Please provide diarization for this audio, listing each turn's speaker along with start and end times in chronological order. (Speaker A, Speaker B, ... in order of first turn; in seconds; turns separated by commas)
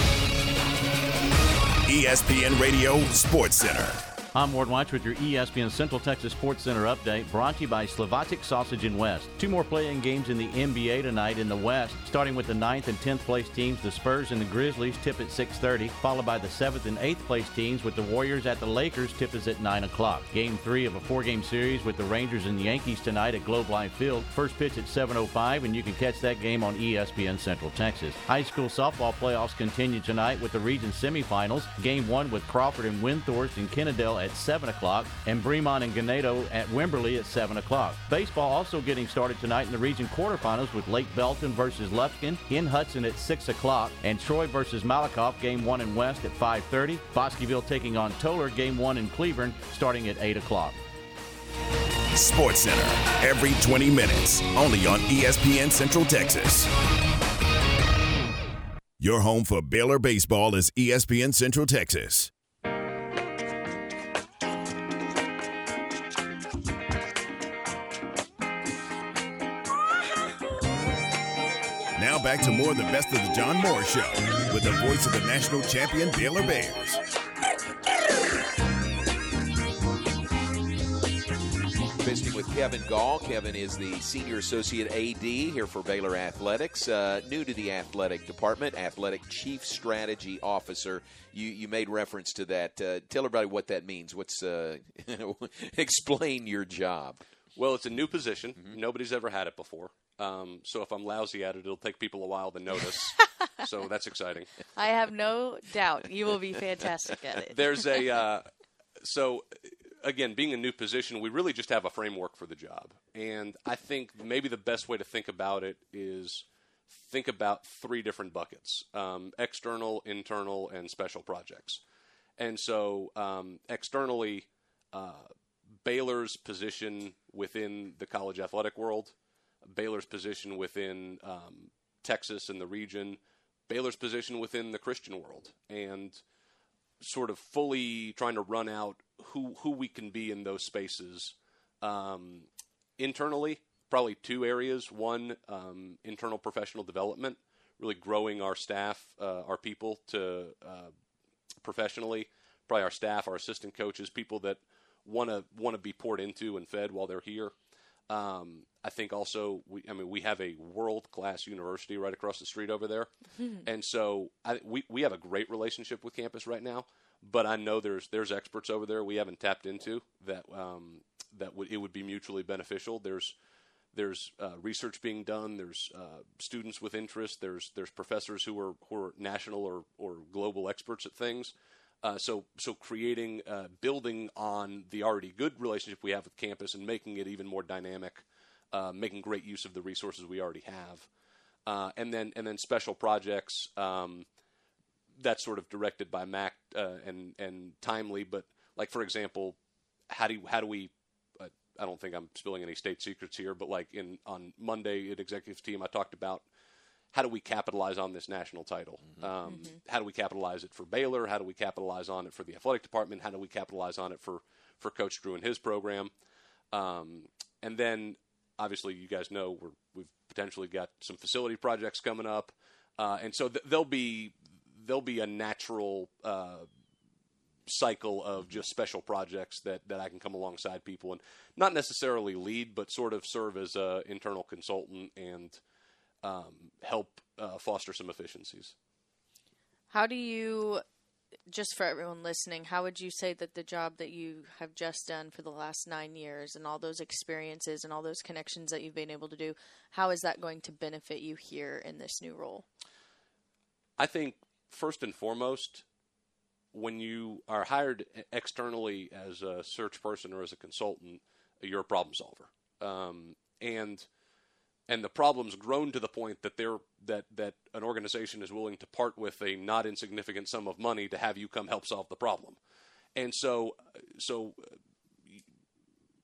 Speaker A: 1.9-4.0, Speaker B: 4.3-50.8, Speaker A: 52.1-56.7, Speaker A: 59.0-62.3, Speaker A: 72.0-77.0, Speaker C: 82.0-97.2, Speaker D: 97.5-104.5, Speaker E: 104.8-107.6, Speaker D: 107.5-108.5, Speaker D: 109.0-109.5, Speaker D: 110.0-121.8, Speaker D: 122.4-125.3, Speaker D: 125.8-129.1, Speaker D: 129.6-136.2, Speaker D: 137.0-142.5, Speaker D: 143.0-150.9, Speaker D: 151.6-157.5, Speaker D: 158.1-163.1, Speaker D: 163.6-173.3, Speaker D: 173.9-191.1, Speaker D: 191.7-194.2, Speaker D: 195.2-199.6, Speaker D: 200.1-206.4, Speaker D: 207.1-216.1, Speaker C: 209.0-209.3, Speaker E: 209.4-209.8, Speaker D: 216.7-226.7, Speaker D: 227.7-235.6, Speaker D: 236.2-238.7, Speaker E: 239.9-240.8, Speaker E: 241.5-252.7, Speaker D: 254.0-255.8, Speaker D: 256.7-264.1, Speaker D: 264.9-272.6, Speaker D: 273.1-274.6